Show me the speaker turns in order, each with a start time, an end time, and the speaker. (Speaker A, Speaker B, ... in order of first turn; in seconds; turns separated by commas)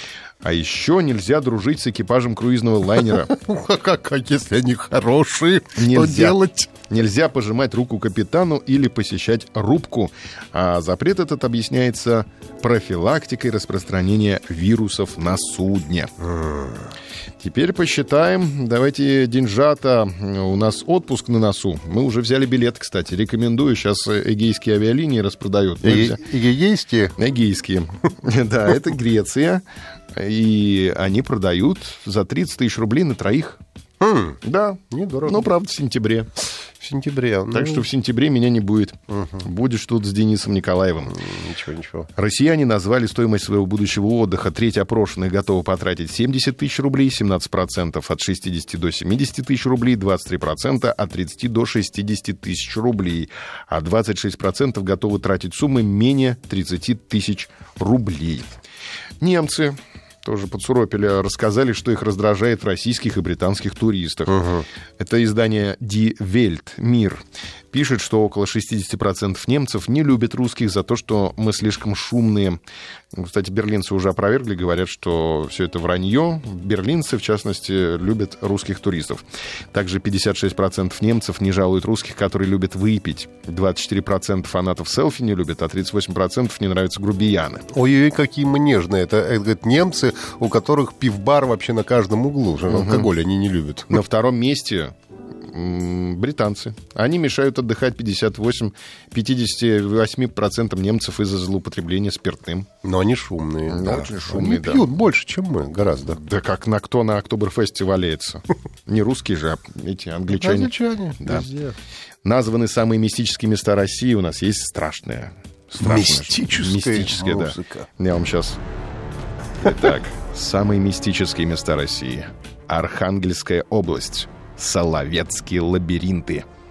Speaker A: 0.4-3.3, Speaker B: 3.0-6.7, Speaker A: 5.7-16.1, Speaker B: 16.2-16.8, Speaker A: 17.4-26.2, Speaker B: 25.8-27.1, Speaker A: 27.2-33.6, Speaker B: 34.0-34.4, Speaker A: 34.4-36.3, Speaker B: 34.9-35.5, Speaker B: 36.8-37.9, Speaker A: 37.5-41.2, Speaker B: 39.1-39.4, Speaker B: 41.2-42.1, Speaker A: 42.1-58.5, Speaker A: 59.2-64.5, Speaker B: 64.3-64.6, Speaker A: 65.0-72.6, Speaker A: 73.1-87.7, Speaker B: 87.7-94.0, Speaker A: 92.7-93.1, Speaker A: 93.9-94.9, Speaker A: 95.5-102.7, Speaker B: 102.8-106.2, Speaker A: 103.7-104.8, Speaker A: 106.2-111.4, Speaker B: 110.3-111.8, Speaker A: 112.2-118.6, Speaker B: 115.8-117.8, Speaker A: 119.6-126.4